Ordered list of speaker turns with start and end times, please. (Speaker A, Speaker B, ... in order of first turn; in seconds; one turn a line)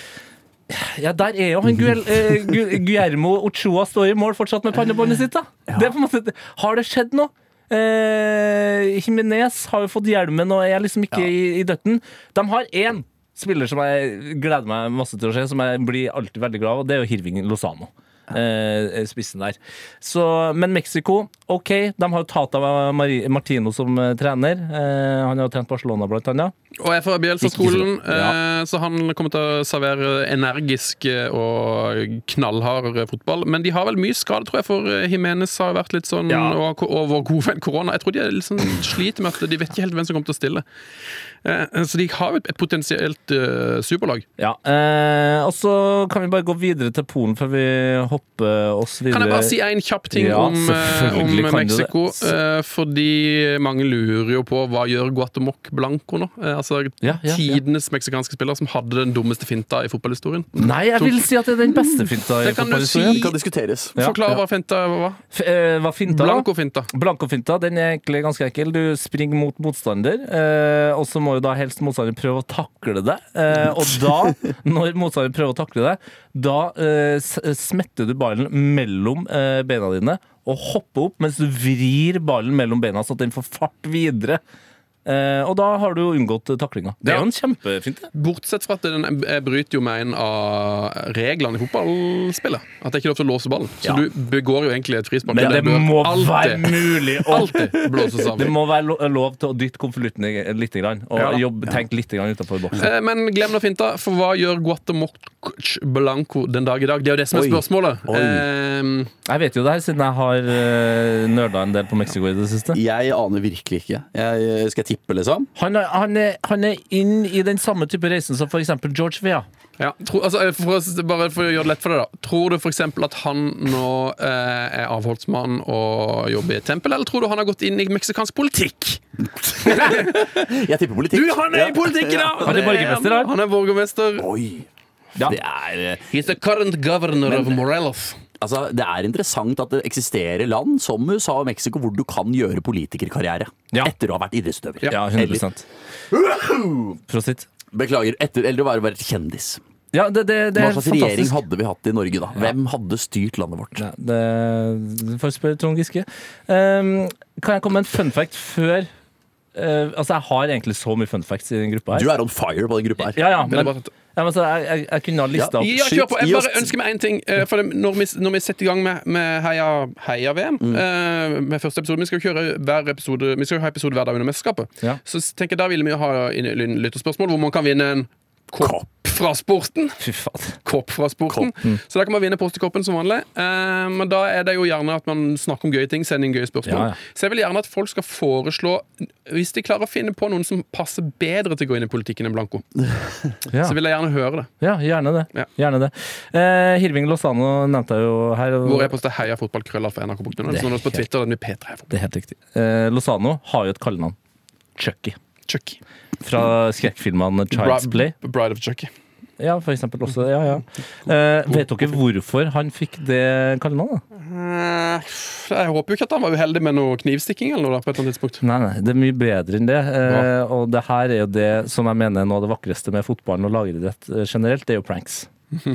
Speaker A: 0.7-26.5
Speaker B: 26.8-40.6
Speaker A: 27.4-28.4
Speaker A: 36.3-36.6
Speaker B: 41.4-44.2
Speaker A: 44.4-49.5
Speaker B: 49.1-61.2
Speaker A: 50.1-51.9
Speaker A: 57.0-57.6
Speaker A: 60.5-63.2
Speaker B: 62.4-63.4
Speaker C: 63.0-64.0
Speaker A: 64.0-64.4
Speaker B: 64.0-65.2
Speaker A: 65.3-84.4
Speaker B: 66.1-66.9
Speaker A: 85.0-88.1
Speaker B: 88.1-98.5
Speaker A: 95.3-97.7
Speaker C: 97.9-98.3
Speaker A: 98.3-102.9
Speaker B: 101.2-101.4
Speaker B: 102.8-109.1
Speaker C: 107.3-108.4
Speaker A: 109.2-112.8
Speaker C: 112.7-115.5
Speaker A: 115.5-119.5
Speaker B: 119.8-129.0
Speaker C: 129.4-132.6
Speaker B: 129.6-130.3
Speaker B: 131.1-134.3
Speaker A: 132.4-133.3
Speaker C: 134.2-134.7
Speaker C: 135.2-136.2
Speaker B: 136.1-138.2
Speaker C: 137.2-137.6
Speaker C: 138.4-145.4
Speaker A: 144.9-145.6
Speaker C: 146.1-147.0
Speaker A: 147.1-147.4
Speaker C: 147.7-149.6
Speaker A: 149.9-151.4
Speaker C: 150.5-153.8
Speaker A: 153.8-158.9
Speaker A: 159.5-162.1
Speaker C: 161.9-163.2
Speaker A: 163.1-165.7
Speaker B: 163.4-163.9
Speaker C: 165.3-166.7
Speaker B: 165.6-180.0
Speaker A: 180.0-180.6
Speaker B: 180.6-192.6
Speaker A: 186.6-186.9
Speaker C: 192.9-193.2
Speaker A: 193.5-193.8
Speaker B: 193.6-194.5
Speaker A: 194.6-198.9
Speaker B: 198.6-201.9
Speaker A: 200.5-201.0
Speaker A: 201.9-204.2
Speaker A: 204.8-205.2
Speaker B: 205.5-205.8
Speaker A: 206.2-208.1
Speaker B: 207.5-208.9
Speaker A: 209.4-214.0
Speaker B: 214.2-218.4
Speaker A: 218.4-225.3